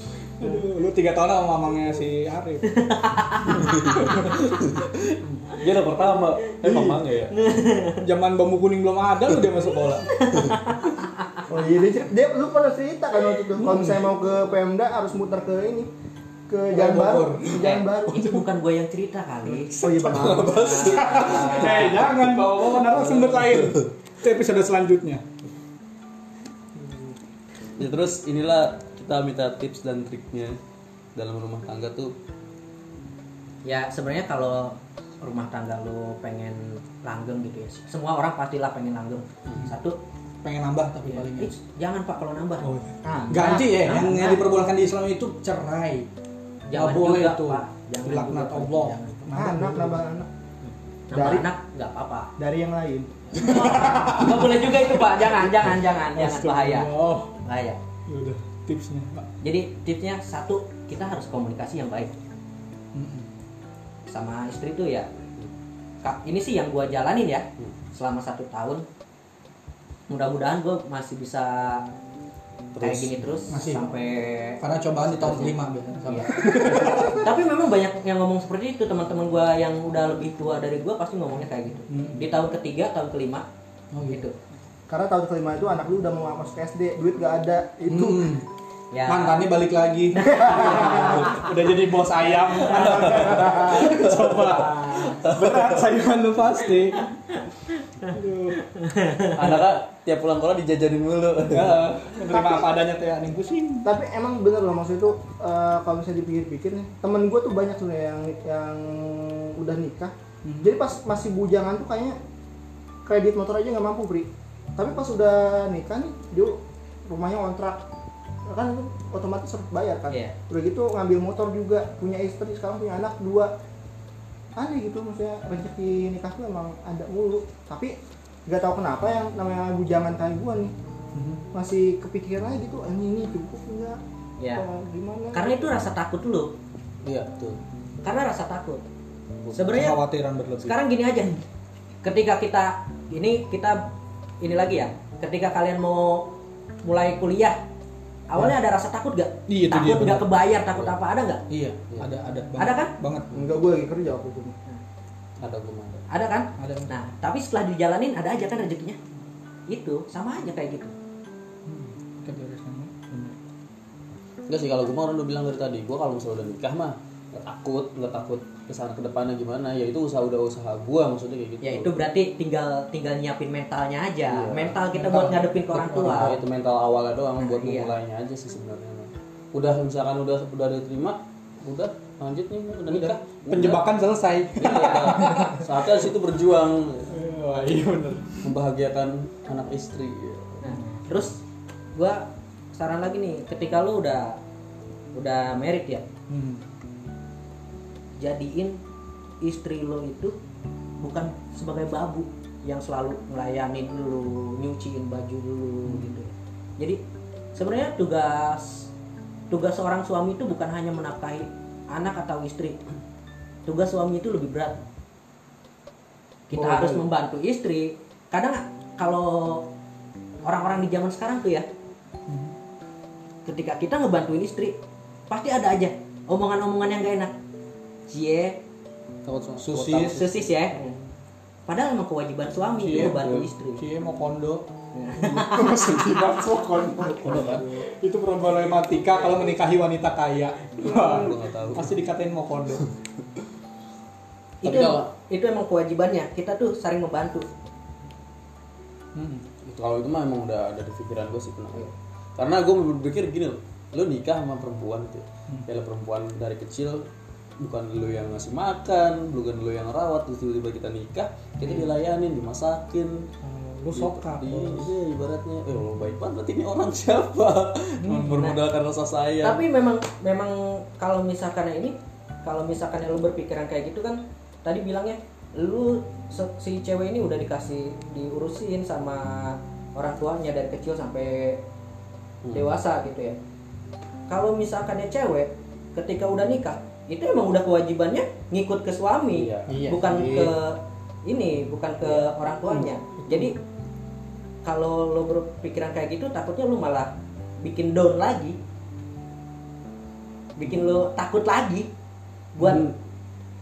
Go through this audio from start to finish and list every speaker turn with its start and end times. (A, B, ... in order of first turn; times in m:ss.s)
0:00.4-0:02.8 A
0:02.7-0:04.4 B
0:03.5-0:07.4 C
0:04.0-0:04.3 A
0:07.3-0:08.0 B
0:08.0-0:10.1 A
0:10.1-0:11.4 B
0:11.5-0:15.9 D
0:13.6-0:14.1 A
0:16.5-0:18.3 D
0:16.7-0:18.4 A
0:17.6-0:19.7 B
0:19.4-0:25.2 A
0:19.8-0:21.0 D
0:20.1-0:22.1 C
0:20.5-0:22.0 B
0:22.9-0:23.9 C
0:27.8-0:30.6 C
0:31.2-0:32.1 C
0:33.6-0:40.0 B
0:40.4-0:41.5 A
0:41.1-0:42.7 B
0:42.6-0:46.1 A
0:43.0-0:43.6 D
0:43.3-0:44.4 B
0:46.7-0:49.2 B
0:46.7-0:50.0 A
0:49.3-0:50.3 D
0:51.1-0:52.3 B
0:51.1-0:51.5 D
0:52.4-0:54.3 D
0:53.4-0:57.3 A
0:53.4-0:56.9 B
0:57.4-0:57.8 B
0:58.1-0:59.3 A
0:59.4-1:02.2 B
1:02.9-1:03.3 A
1:04.1-1:05.1 B
1:06.0-1:08.8 B
1:10.1-1:11.8 B
1:12.7-1:13.2 C
1:12.8-1:23.5 B
1:13.5-1:13.8 A
1:14.6-1:17.3 A
1:21.9-1:22.3 A
1:23.9-1:24.3 A
1:24.1-1:24.4 B
1:24.9-1:28.4 D
1:27.9-1:28.5 A
1:28.9-1:29.4 B
1:29.1-1:37.1 A
1:30.2-1:31.2 B
1:30.3-1:31.3 D
1:32.7-1:35.8 C
1:33.0-1:33.8 D
1:38.1-1:38.7 A
1:38.6-1:39.4 B
1:39.3-1:41.8 C
1:41.5-1:43.9 A
1:42.3-1:42.7 D
1:43.8-1:52.2 D
1:50.4-1:50.8 A
1:53.0-1:57.8 D
1:58.5-2:03.5 D
2:00.1-2:00.4 B
2:04.6-2:10.7 D
2:11.1-2:11.4 A
2:11.5-2:14.0 D
2:14.4-2:14.6 B
2:14.5-2:15.7 D
2:15.3-2:16.5 B
2:17.0-2:17.6 C
2:18.0-2:18.8 B
2:19.5-2:20.0 B
2:19.7-2:20.8 A
2:20.6-2:21.4 B
2:22.0-2:23.9 B
2:24.4-2:26.3 B
2:26.8-2:27.6 B
2:28.3-2:31.4 B
2:29.5-2:30.3 A
2:31.5-2:33.5 A
2:32.6-2:32.9 B
2:33.3-2:34.6 D
2:35.4-2:36.0 C
2:36.1-2:39.0 B
2:36.6-2:36.9 A
2:39.7-2:40.9 B
2:41.7-2:43.4 A
2:44.5-2:51.9 C
2:51.6-2:56.4 B
2:54.3-2:54.8 C
2:54.9-2:56.4 A
2:55.8-3:03.9 C
2:57.4-2:57.9 B
3:02.9-3:05.7 A
3:04.6-3:07.1 C
3:04.6-3:05.0 B
3:07.1-3:08.5 A
3:08.4-3:10.6 C
3:10.6-3:11.4 B
3:11.9-3:14.4 B
3:15.1-3:16.0 B
3:16.3-3:16.6 A
3:18.2-3:18.8 B
3:19.4-3:20.4 B
3:21.0-3:27.0 B
3:25.9-3:26.2 A
3:27.6-3:28.9 B
3:29.5-3:32.8 B
3:33.7-3:34.8 B
3:36.5-3:39.7 B
3:36.6-3:37.0 D
3:40.4-3:41.7 B
3:42.3-3:42.5 A
3:43.5-3:44.8 B
3:45.3-3:47.3 B
3:48.1-3:48.6 B
3:49.3-3:50.4 C
3:49.6-3:50.3 A
3:50.1-3:51.0 B
3:51.7-3:53.8 B
3:52.8-4:02.9 A
3:52.9-3:53.5 C
3:54.9-3:56.3 B
3:57.2-3:57.6 C
3:57.3-3:57.6 D
4:00.8-4:01.9 C
4:04.6-4:07.5 B
4:04.6-4:05.1 C
4:09.2-4:09.5 A
4:09.6-4:17.1 C
4:17.6-4:23.3 C
4:23.4-4:24.9 A
4:23.9-4:29.6 C
4:28.0-4:28.5 A
4:28.3-4:28.6 B
4:29.4-4:41.6 B
4:42.4-4:42.7 C
4:42.5-4:43.4 B
4:44.3-4:53.6 B
4:49.3-4:49.8 C
4:49.7-4:50.6 A
4:54.6-4:58.6 B
5:00.6-5:01.9 B
5:02.6-5:02.8 B
5:02.6-5:03.0 C